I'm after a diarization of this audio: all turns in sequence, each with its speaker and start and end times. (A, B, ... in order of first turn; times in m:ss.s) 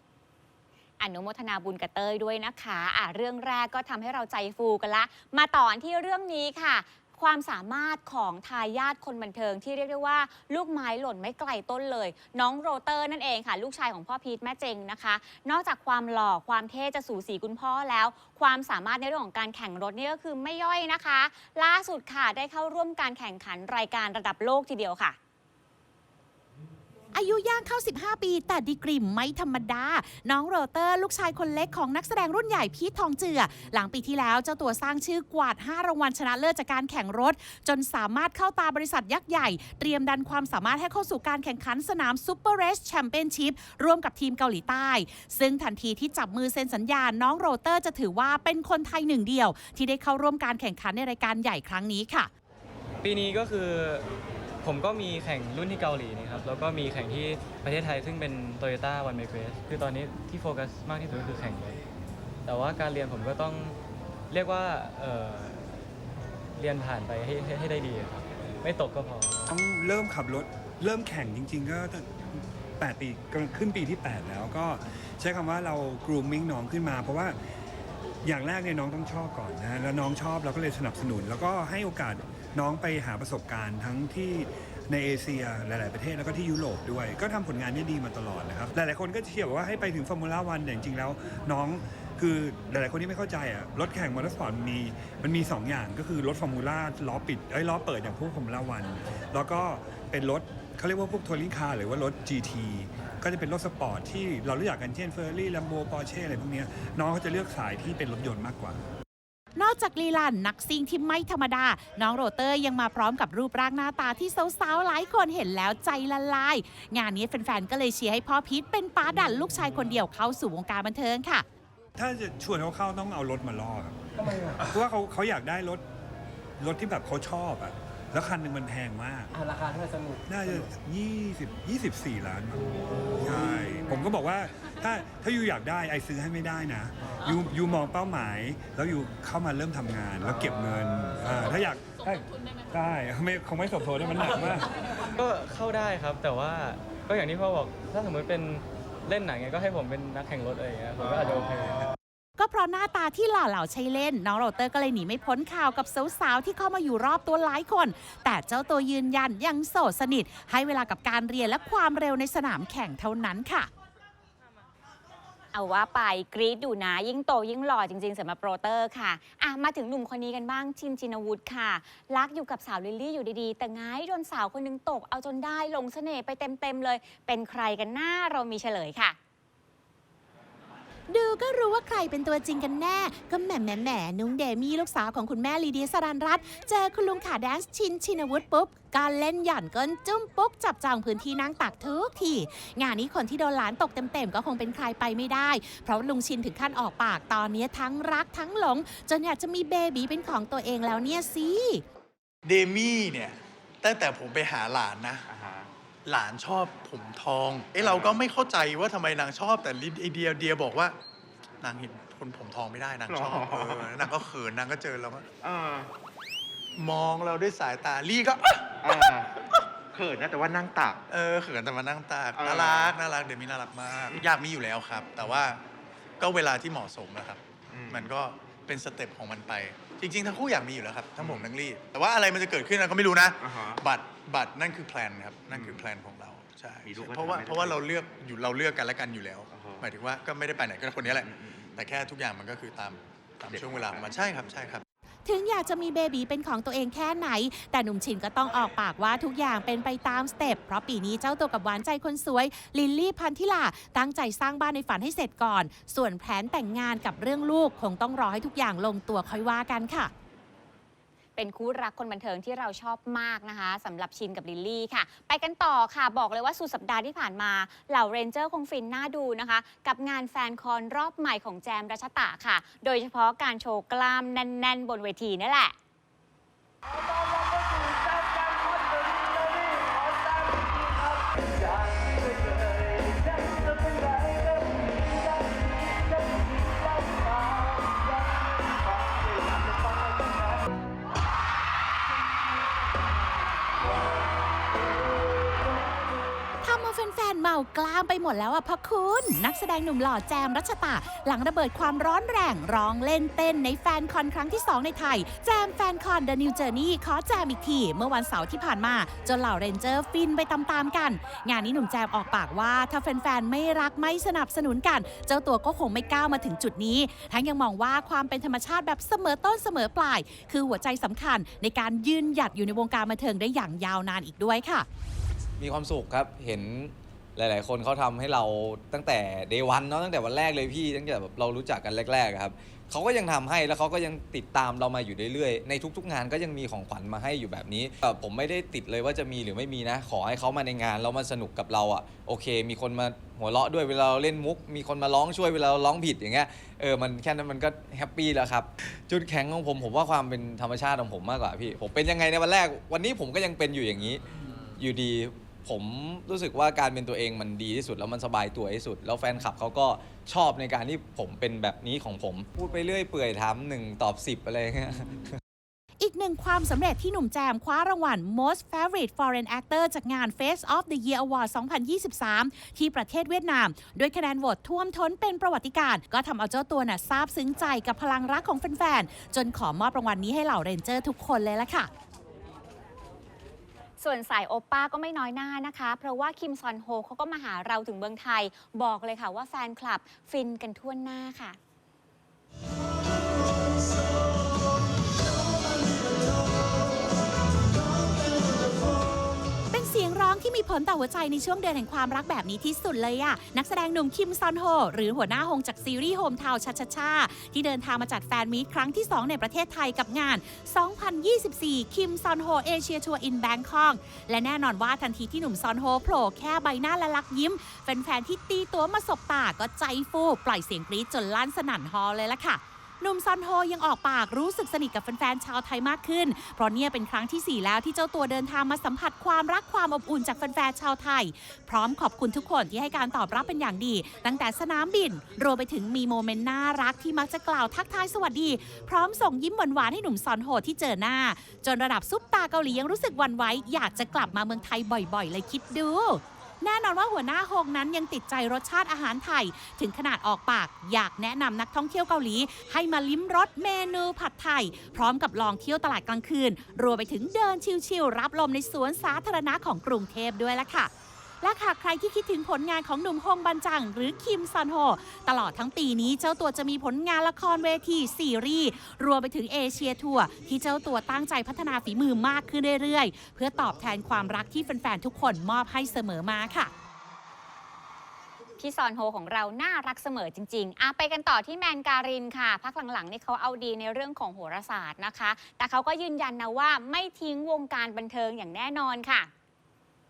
0:01.0-0:25.2 A
0:27.1-0:52.3 B
0:53.0-0:54.0 C
0:54.6-1:01.8 C
1:02.4-1:03.8 C
1:04.3-1:05.6 C
1:06.6-1:09.4 C
1:09.5-1:17.4 D
1:18.2-1:48.8 D
1:49.5-2:01.4 B
2:02.0-2:04.0 D
2:04.6-2:05.8 D
2:06.6-2:12.6 D
2:13.2-2:24.7 D
2:25.1-2:31.9 C
2:32.4-2:43.7 B
2:45.5-2:59.2 A
3:01.1-3:21.8 B
3:22.4-3:25.2 E
3:25.2-3:25.7 F
3:26.0-3:31.0 E
3:27.8-3:28.3 F
3:31.6-3:35.3 E
3:33.1-3:34.2 F
3:35.4-3:35.9 F
3:36.8-3:39.1 E
3:38.8-3:41.0 F
3:41.1-3:45.6 E
3:42.3-3:43.0 F
3:44.0-3:44.4 F
3:45.2-3:45.5 F
3:46.2-4:04.8 E
3:47.7-3:48.2 F
3:51.2-3:51.5 F
3:53.3-3:53.8 F
3:55.5-3:55.8 F
3:56.8-3:57.9 F
3:59.5-3:59.9 F
4:01.0-4:01.9 F
4:03.4-4:04.1 F
4:05.2-4:20.1 B
4:21.4-4:35.7 A
4:56.6-5:24.8 B
5:25.6-5:54.2 G
5:54.8-6:05.4 G
6:06.0-6:21.9 B
6:24.0-6:31.6 A
6:39.7-7:40.9 B
7:41.4-7:56.7 B
7:58.6-8:09.3 A